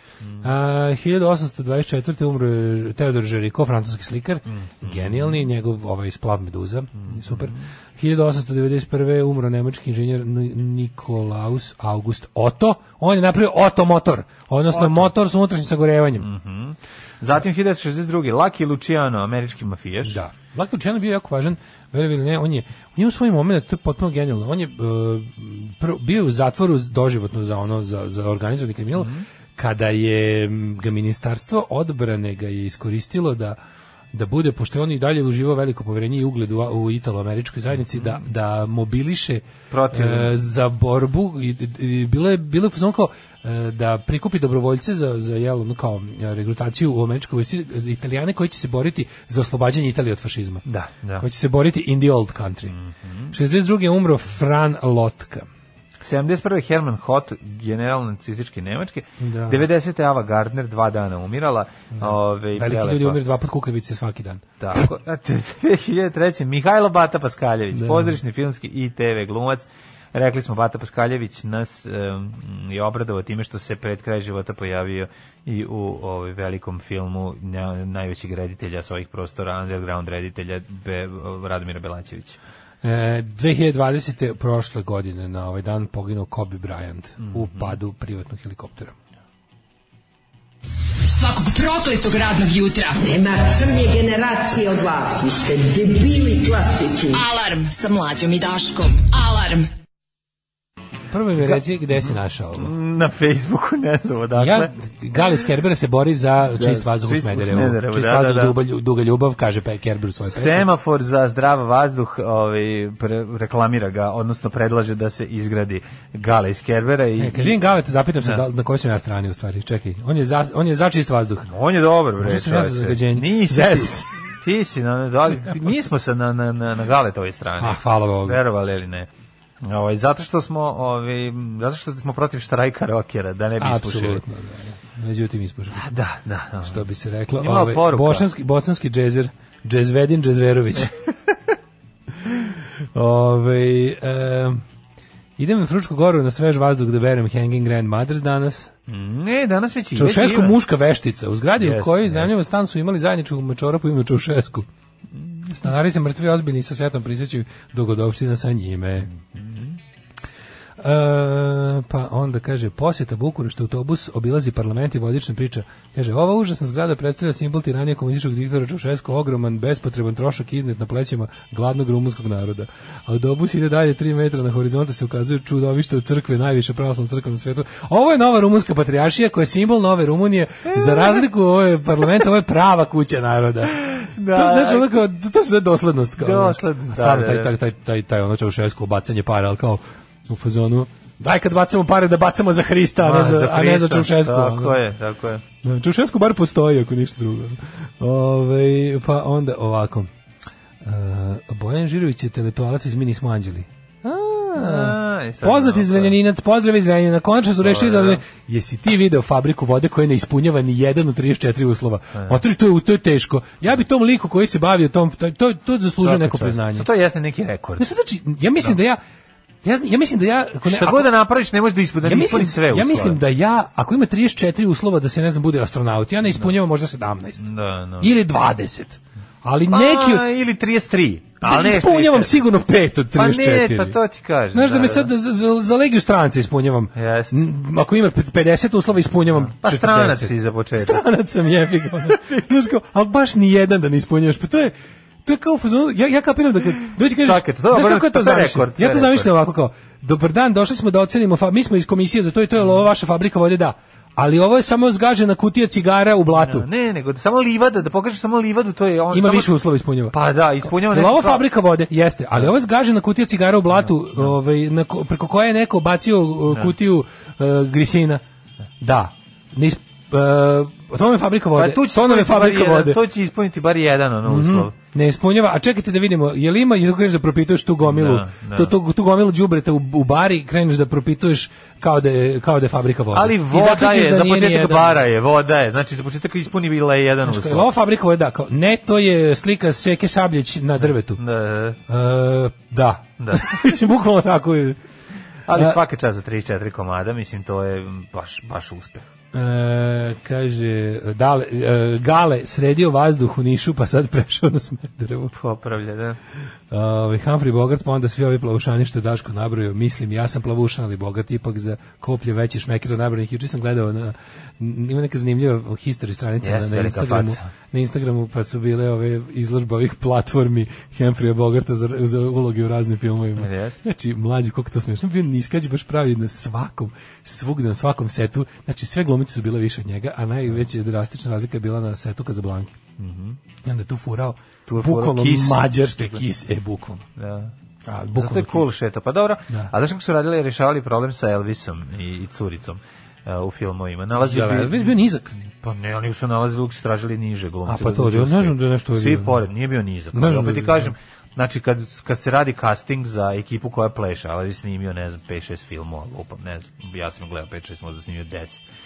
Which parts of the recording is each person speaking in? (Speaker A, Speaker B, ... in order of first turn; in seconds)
Speaker A: 0.2-0.5, 4.5-5.4, 7.0-7.6, 14.7-15.1, 16.2-20.2, 29.0-29.2, 37.9-38.2, 39.7-40.3, 50.6-51.2, 52.7-53.3, 56.0-63.2, 64.6-82.4, 87.2-87.8, 101.4-104.7, 106.5-108.5, 110.2-117.6, 121.5-129.1, 129.6-134.2, 135.7-138.3, 148.9-150.6, 151.6-152.3, 155.2-155.4, 159.1-159.8, 180.7-181.2, 183.8-184.9, 186.2-187.5, 193.0-195.4, 204.5-206.2, 207.6-208.2, 216.0-217.9, 220.6-223.2, 227.4-228.1, 229.7-232.4, 233.1-235.1, 236.9-237.4, 239.6-241.0, 242.1-242.4, 247.2-249.3, 256.4-259.5, 260.1-261.4, 271.5-274.7, 277.8-278.7, 283.1-287.7, 290.8-291.8, 293.2-293.6, 295.5-299.1, 305.3-306.2, 316.4-317.4, 323.4-323.8, 333.0-333.4, 334.7-336.2, 337.2-337.5, 338.1-358.6
Speaker B: 0.4-16.3, 20.0-33.6, 34.1-50.6, 51.2-52.8, 53.3-55.5, 59.2-59.6, 62.0-64.8, 67.7-68.2, 82.8-89.0, 101.1-102.7, 104.3-110.7, 117.2-121.5, 122.2-124.1, 127.6-128.4, 133.6-135.9, 136.6-140.9, 142.9-144.6, 145.4-148.7, 149.9-154.7, 155.5-159.1, 160.8-194.8, 195.6-200.1, 200.8-216.9, 217.8-219.0, 219.6-221.1, 222.0-227.4, 228.0-230.2, 231.4-234.0, 234.5-244.7, 245.2-256.6, 259.1-268.2, 268.8-273.0, 274.2-285.0, 287.2-291.2, 291.9-294.8, 295.5-295.8, 299.3-305.3, 306.7-332.8, 333.6-337.0, 337.9-338.7, 344.1-345.3, 347.7-349.4, 350.1-350.9
Speaker C: 91.1-93.0, 97.1-99.7
Speaker D: 93.4-96.9